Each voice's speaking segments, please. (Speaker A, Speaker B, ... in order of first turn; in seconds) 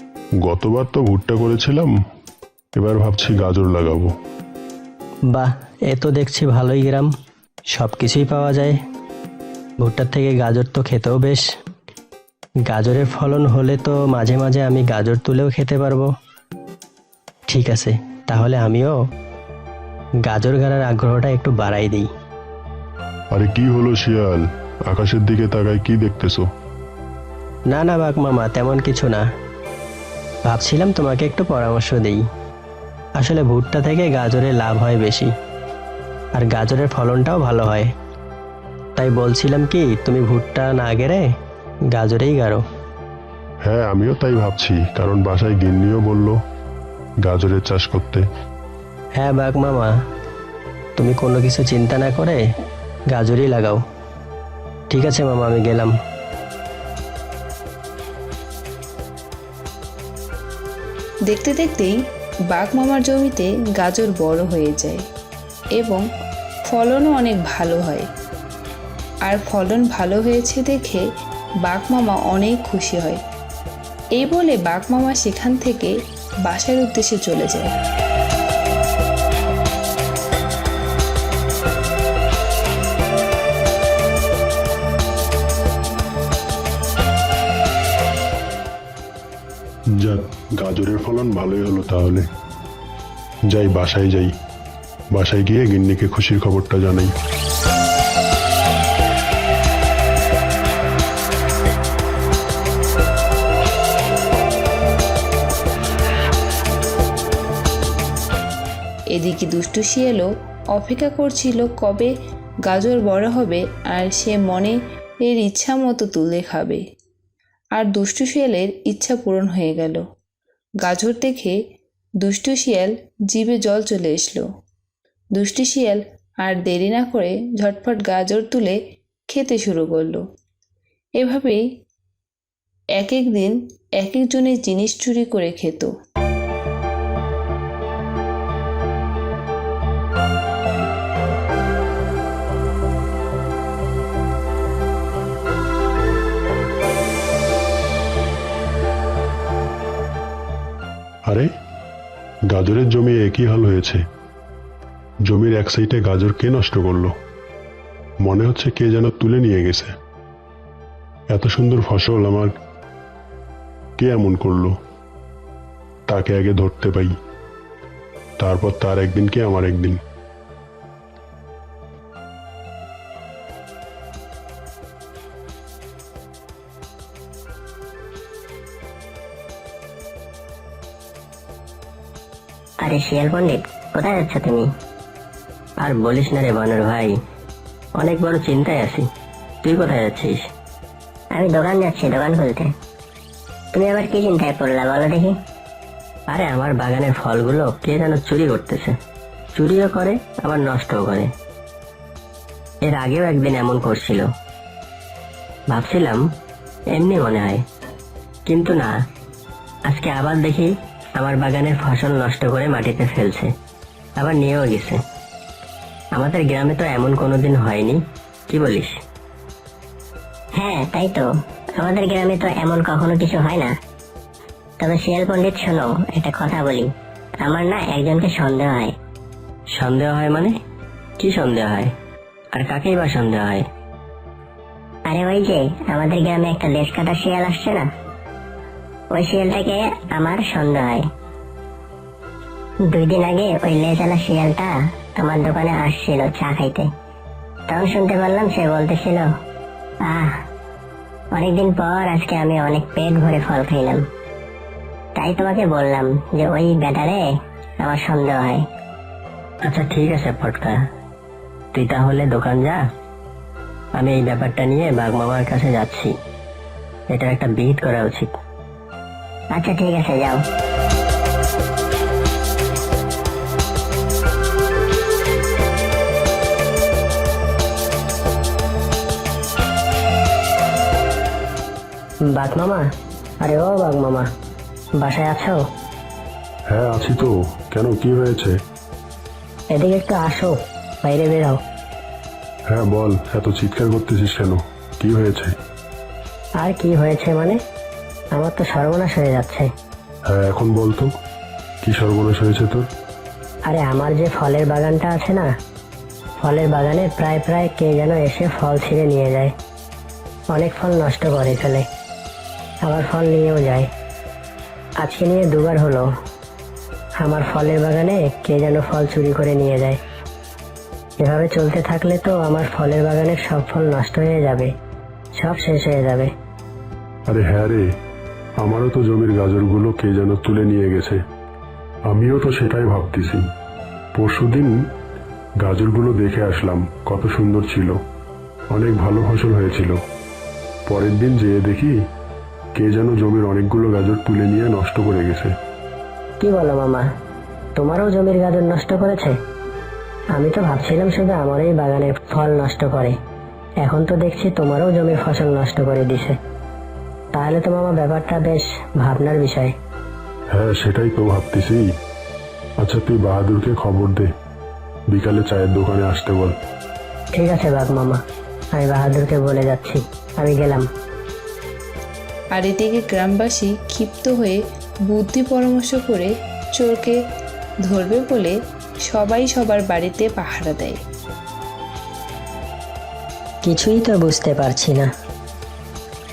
Speaker A: 0.4-1.9, 2.8-4.1, 23.3-26.5, 43.6-46.4, 47.2-48.2, 90.0-92.2, 93.5-94.3, 95.1-97.1, 152.5-154.0, 155.3-157.1, 158.2-159.9, 161.3-162.5, 164.0-164.7, 166.1-167.1, 168.4-170.0, 286.7-288.5, 292.7-295.5, 300.3-301.1, 301.8-302.9, 327.3-327.8, 328.6-331.2, 332.1-333.4, 334.1-334.8, 335.6-337.9, 338.7-340.0, 340.9-342.0, 342.8-345.5, 360.5-361.9, 362.8-364.3, 365.1-366.5
Speaker B: 5.3-7.1, 7.7-8.8, 9.8-11.4, 12.7-16.1, 17.5-19.0, 20.2-22.1, 27.7-29.2, 30.5-32.2, 33.2-35.3, 36.4-37.9, 39.0-41.2, 41.9-42.6, 49.2-49.9, 51.0-52.4, 53.1-53.8, 54.9-55.9, 185.8-187.1, 188.0-189.0, 189.6-190.4, 196.3-198.9, 199.5-201.3, 202.8-204.3, 205.7-206.2, 206.9-207.6, 208.5-208.9, 209.9-210.7, 211.2-213.5, 214.2-215.0, 216.2-218.0, 218.5-218.9, 229.7-230.5, 231.2-231.9, 232.5-233.6, 259.6-260.8, 261.7-262.8, 264.0-266.1, 267.1-268.3, 282.3-282.9, 283.4-284.3, 285.0-285.6, 289.7-291.6, 296.6-297.6, 298.3-299.7, 303.7-305.5, 306.4-309.5, 310.5-311.9, 312.8-313.9, 315.0-316.1, 317.2-320.0, 321.2-324.7, 325.4-326.3, 346.4-347.1, 347.8-349.4, 350.3-353.2, 353.8-356.4, 357.3-359.7, 367.3-368.2, 368.8-370.9, 383.6-385.1
Speaker C: 61.3-62.0, 62.5-65.0, 65.8-66.0, 66.7-68.1, 69.2-71.0, 71.7-73.2, 74.2-75.9, 76.5-77.8, 109.1-112.1, 112.7-116.8, 117.8-120.0, 120.8-121.6, 122.2-124.5, 125.4-128.8, 129.3-130.2, 131.2-131.6, 133.0-135.9, 372.5-377.2, 377.9-378.5, 379.1-381.0
Speaker D: 182.8-184.7, 191.3-192.7, 193.7-195.3, 220.6-221.2, 221.8-223.7, 224.8-226.9, 227.4-228.9, 235.1-237.9, 239.1-241.0, 242.8-246.9, 247.7-249.3, 250.1-250.3, 251.3-254.0, 255.2-257.2, 257.8-258.6, 269.5-270.4